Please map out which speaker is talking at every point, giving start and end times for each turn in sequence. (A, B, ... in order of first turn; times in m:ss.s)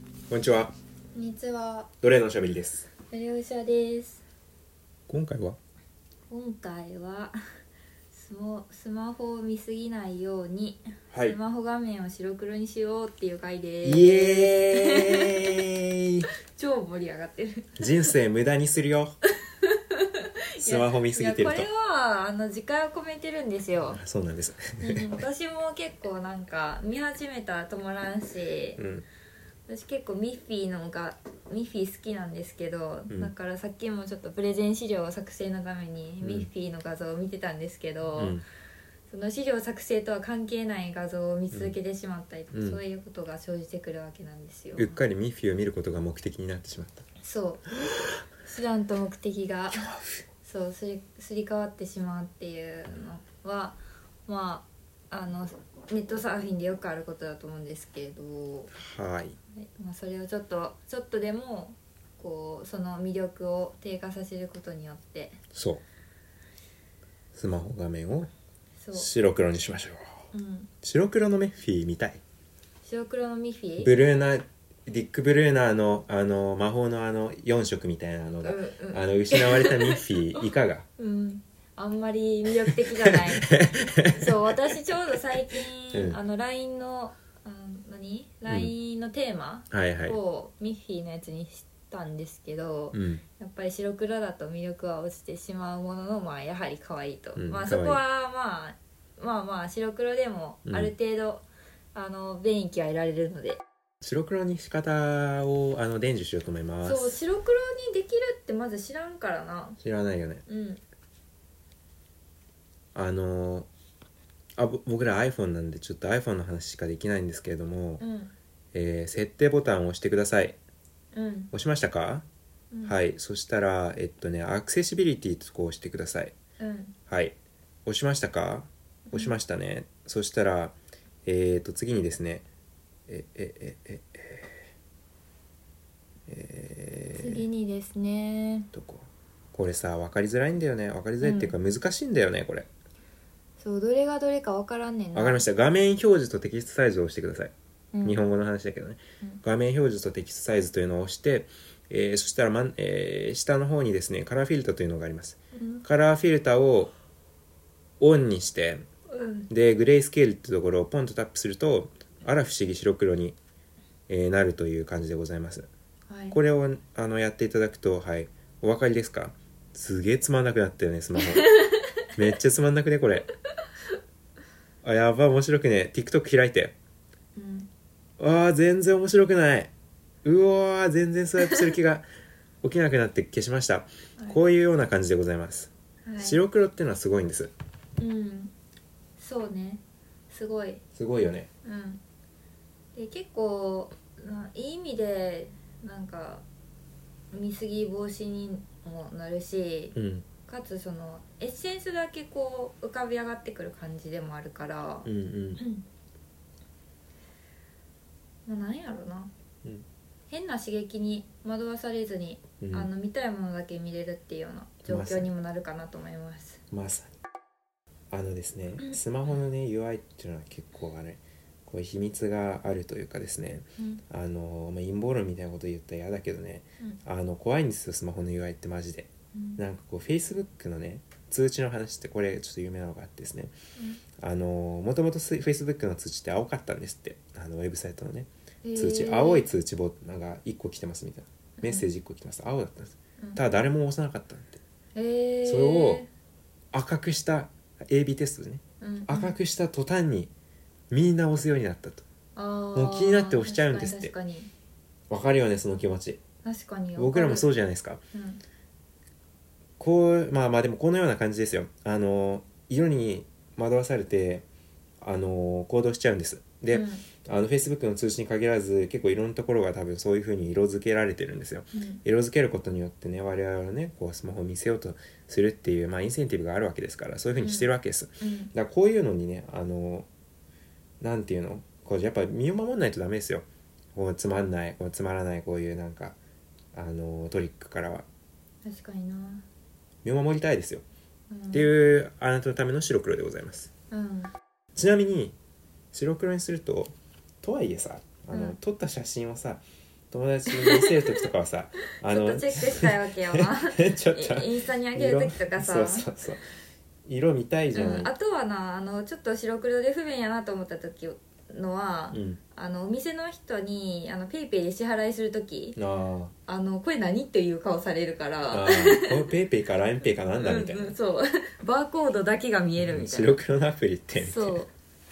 0:00.3-0:00.7 A
0:01.1-0:01.9 B
0:02.0-0:02.9 A
0:03.1-0:04.2 B
0:05.1-0:05.6 A
0:06.3-0:07.4 B
0:08.1-0:15.5 B
0:11.1-0:11.4 A
0:13.8-0:16.3 A
0:16.5-0:17.8 B
0:17.8-0:19.2 A
0:19.5-0:24.0 B
0:20.6-0:21.7 A
0:23.9-0:25.1 A
0:24.8-0:28.8 B
0:28.8-0:29.0 A
0:29.7-0:38.4 B
0:36.2-0:36.5 A
0:38.2-0:38.4 A
0:39.1-0:45.0 B
0:42.5-0:42.8 A
0:44.8-0:47.0 A
0:47.2-0:47.7 B
0:48.4-0:49.9 B
0:49.7-0:50.2 A
0:50.4-0:58.7 B
0:58.7-0:59.4 A
0:59.6-1:05.4 B
1:05.5-1:05.8 A
1:07.3-1:08.3 A
1:08.8-1:09.1 B
1:08.9-1:10.2 A
1:10.3-1:10.7 B
1:10.8-1:12.2 A
1:12.8-1:13.9 B
1:13.8-1:20.9 A
1:18.4-1:20.4 B
1:21.0-1:43.6 B
1:23.1-1:24.4 A
1:25.9-1:26.2 A
1:28.5-1:28.7 A
1:29.7-1:30.2 A
1:32.9-1:33.2 A
1:37.4-1:38.0 A
1:40.6-1:40.9 A
1:44.0-1:47.2 A
1:46.8-1:49.8 B
1:49.8-1:50.4 A
1:50.5-1:50.8 B
1:53.0-1:53.7 A
1:54.6-1:58.0 A
1:58.0-1:58.3 B
1:58.7-2:00.6 A
2:01.1-2:01.5 B
2:01.5-2:02.2 A
2:02.7-2:03.0 B
2:02.8-2:06.3 A
2:06.6-2:07.0 B
2:07.1-2:07.4 A
2:07.9-2:12.5 A
2:13.1-2:14.7 A
2:16.3-2:17.5 A
2:17.2-2:18.7 B
2:18.7-2:22.7 A
2:21.2-2:21.5 B
2:23.6-2:25.4 B
2:25.1-2:36.9 A
2:27.9-2:28.2 B
2:35.5-2:35.8 B
2:38.0-2:38.8 A
2:39.1-2:39.5 B
2:39.5-2:43.4 A
2:44.1-2:45.7 A
2:46.1-2:46.4 B
2:46.3-2:51.5 A
2:51.2-2:51.9 B
2:52.2-2:53.3 A
2:54.8-2:56.7 A
2:57.4-2:57.7 B
2:58.2-2:59.7 A
3:00.2-3:02.1 A
3:02.6-3:07.5 A
3:06.0-3:06.4 B
3:08.0-3:08.5 B
3:09.2-3:10.8 B
3:11.0-3:11.5 A
3:11.6-3:12.0 B
3:13.0-3:16.4 B
3:17.3-3:25.8 B
3:20.0-3:20.3 A
3:25.0-3:25.6 A
3:28.5-3:29.3 B
3:30.3-3:36.6 B
3:32.6-3:32.9 A
3:34.9-3:35.3 A
3:36.7-3:37.1 A
3:38.1-3:53.5 A
3:49.3-3:49.6 B
3:54.2-4:04.6 A
3:58.6-3:59.5 B
4:01.6-4:01.9 B
4:05.0-4:06.1 B
4:05.4-4:06.0 A
4:06.7-4:10.3 A
4:08.8-4:09.4 B
4:10.9-4:12.0 A
4:12.4-4:14.5 B
4:12.7-4:14.1 A
4:15.1-4:16.2 A
4:16.4-4:17.5 B
4:17.0-4:18.0 A
4:18.1-4:18.4 B
4:19.8-4:24.4 A
4:25.0-4:40.1 A
4:26.7-4:27.0 B
4:31.7-4:32.0 B
4:37.4-4:38.5 B
4:41.0-4:46.2 A
4:46.7-4:48.1 A
4:48.6-4:49.4 B
4:50.0-4:50.8 A
4:51.3-4:51.7 B
4:51.5-4:53.7 A
4:53.9-4:54.3 B
4:54.8-4:55.4 A
4:55.9-5:06.4 A
4:58.3-4:58.6 B
5:00.5-5:01.2 B
5:02.0-5:06.1 B
5:07.1-5:08.1 A
5:07.8-5:15.8 B
5:12.1-5:12.4 A
5:15.8-5:16.3 A
5:16.5-5:19.3 B
5:18.5-5:21.0 A
5:20.4-5:23.4 B
5:22.8-5:24.7 A
5:24.2-5:24.7 B